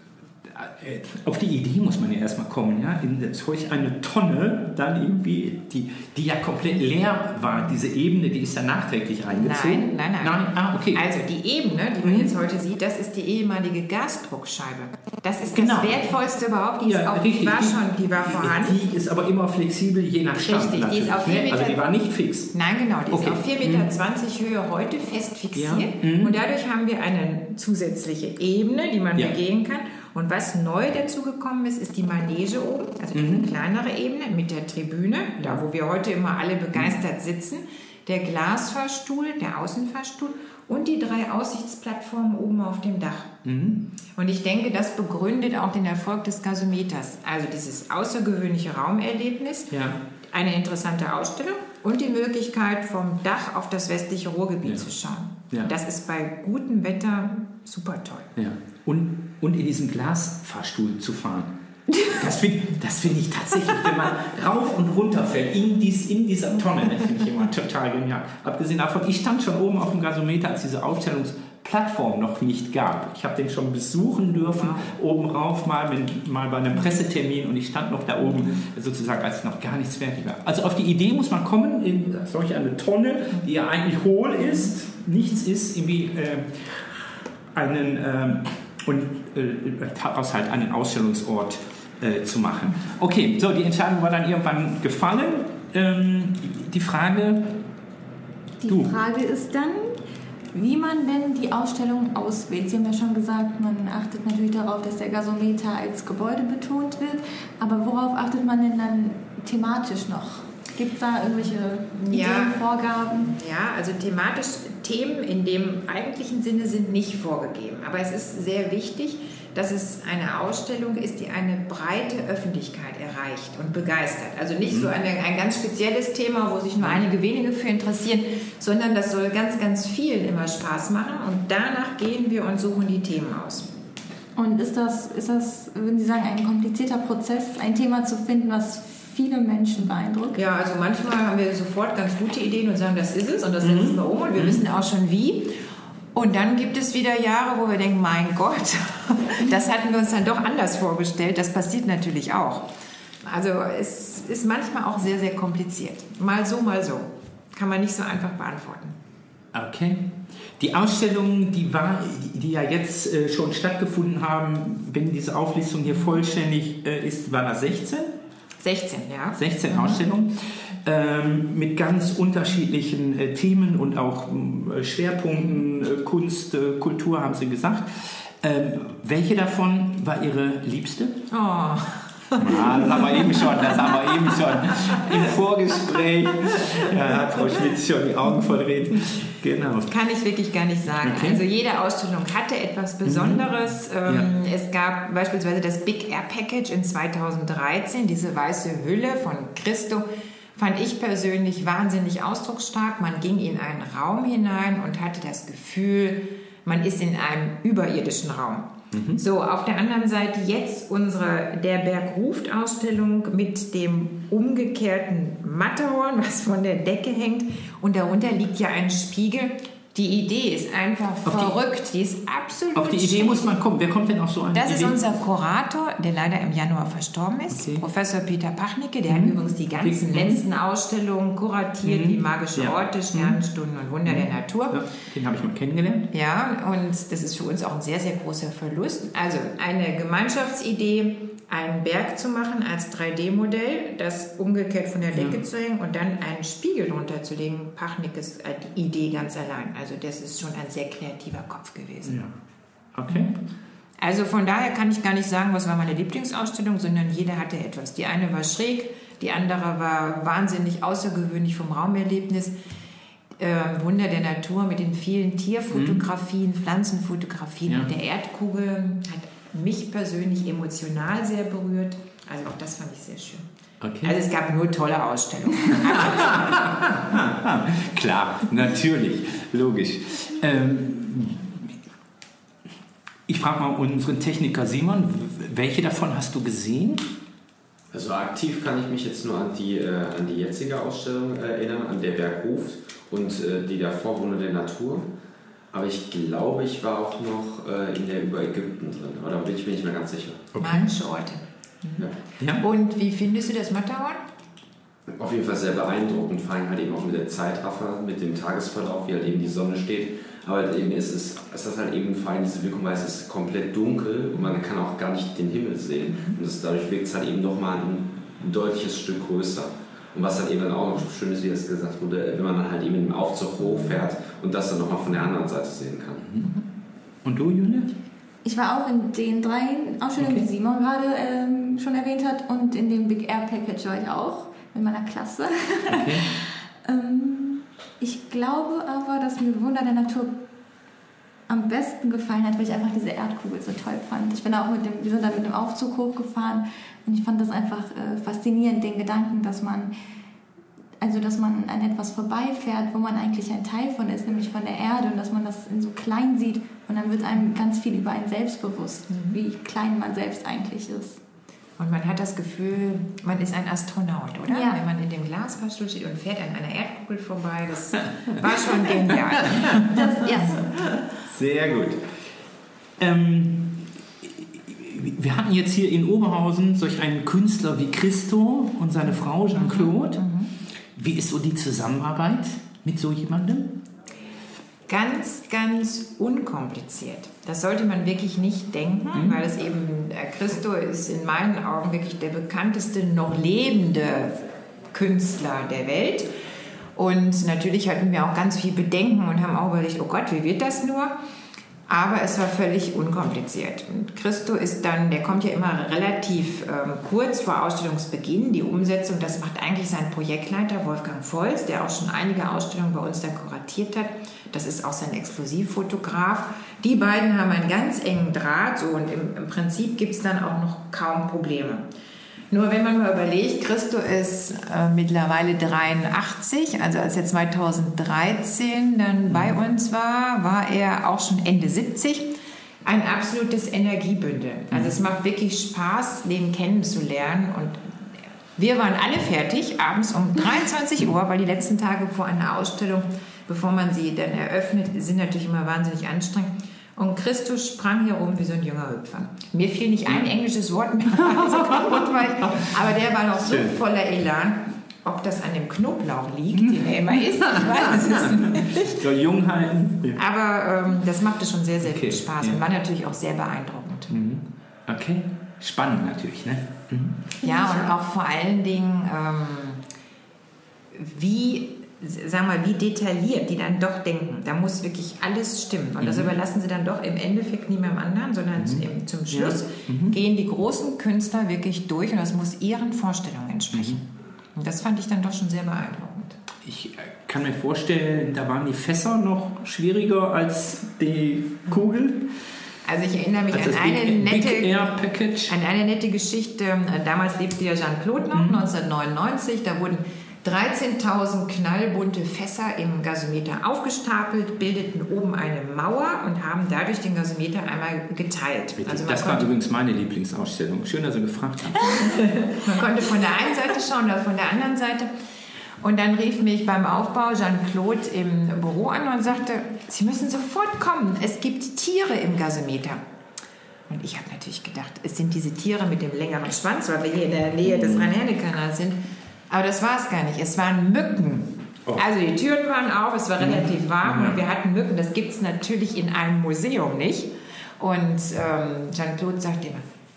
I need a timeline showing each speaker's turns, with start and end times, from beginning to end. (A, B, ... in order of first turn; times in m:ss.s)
0:00.4-0:11.0 A
0:09.3-0:18.8 B
0:12.0-0:12.3 A
0:15.5-0:16.0 A
0:16.8-0:22.5 A
0:20.4-0:21.8 B
0:22.5-0:43.3 B
0:23.1-0:23.9 A
0:25.5-0:26.4 A
0:33.1-0:33.5 A
0:43.4-0:43.8 A
0:44.2-0:58.3 B
0:49.7-0:50.0 A
0:58.4-1:01.5 A
1:02.0-1:37.6 A
1:14.4-1:14.9 B
1:38.6-1:40.0 C
1:38.7-1:38.9 A
1:40.5-1:53.3 C
1:52.1-1:52.6 B
1:53.3-2:13.7 B
2:14.4-2:20.4 C
2:20.3-2:25.6 B
2:23.6-2:24.6 A
2:26.1-2:32.7 B
2:33.2-2:39.0 B
2:39.5-2:48.1 A
2:48.6-2:50.0 B
2:49.4-3:01.2 A
3:01.3-3:05.2 B
3:02.4-3:09.9 A
3:09.9-3:43.5 B
3:11.0-3:11.4 A
3:13.0-3:13.4 A
3:28.9-3:29.2 A
3:41.2-3:41.5 A
3:42.7-3:45.0 A
3:44.5-3:54.8 B
3:47.5-3:47.8 A
3:49.1-3:50.4 A
3:51.8-3:53.4 A
3:54.0-3:56.1 A
3:56.1-4:12.2 B
4:05.1-4:05.4 A
4:12.0-4:12.3 A
4:12.9-4:13.3 A
4:13.1-4:13.3 B
4:14.0-4:22.5 B
4:23.4-4:33.4 B
4:25.7-4:26.0 A
4:33.8-4:34.2 A
4:34.0-4:36.9 B
4:35.8-4:41.7 A
4:43.3-4:47.1 A
4:47.9-4:55.1 D
4:55.7-5:00.5 D
5:00.5-5:00.9 A
5:00.6-5:02.1 B
5:02.6-5:04.2 B
5:05.1-5:26.2 D
5:27.2-5:27.9 A
5:28.4-5:40.4 C
5:30.2-5:30.5 A
5:35.9-5:36.3 A
5:41.5-5:49.9 C
5:51.0-6:01.2 C
5:59.1-5:59.4 B
6:01.8-6:10.6 B
6:04.5-6:04.8 C
6:08.3-6:09.7 A
6:09.9-6:10.8 C
6:11.2-6:12.1 A
6:13.0-6:20.2 A
6:19.5-6:20.5 B
6:20.9-6:23.8 A
6:24.9-6:34.4 B
6:29.1-6:29.4 A
6:34.9-6:36.3 B
6:37.0-6:41.1 B
6:41.9-7:01.8 B
7:02.5-7:12.3 B
7:09.3-7:09.6 A
7:12.8-7:17.9 B
7:18.6-7:38.8 B
7:31.2-7:32.6 A
7:33.4-7:33.7 A
7:37.4-7:40.2 A
7:40.2-7:44.1 B
7:41.8-7:42.6 A
7:44.1-7:47.2 A
7:47.4-7:49.8 B
7:47.4-7:47.9 C
7:50.9-8:06.4 B
7:56.0-7:56.3 A
7:58.6-8:00.2 A
8:03.7-8:04.0 A
8:06.6-8:12.3 A
8:12.8-8:14.9 B
8:13.5-8:15.5 A
8:15.5-8:29.5 B
8:18.3-8:18.7 A
8:28.8-8:32.2 A
8:31.9-8:35.1 B
8:35.8-8:43.0 B
8:43.9-8:49.0 B
8:47.6-8:48.1 A
8:49.5-8:59.8 B
8:53.4-8:54.4 A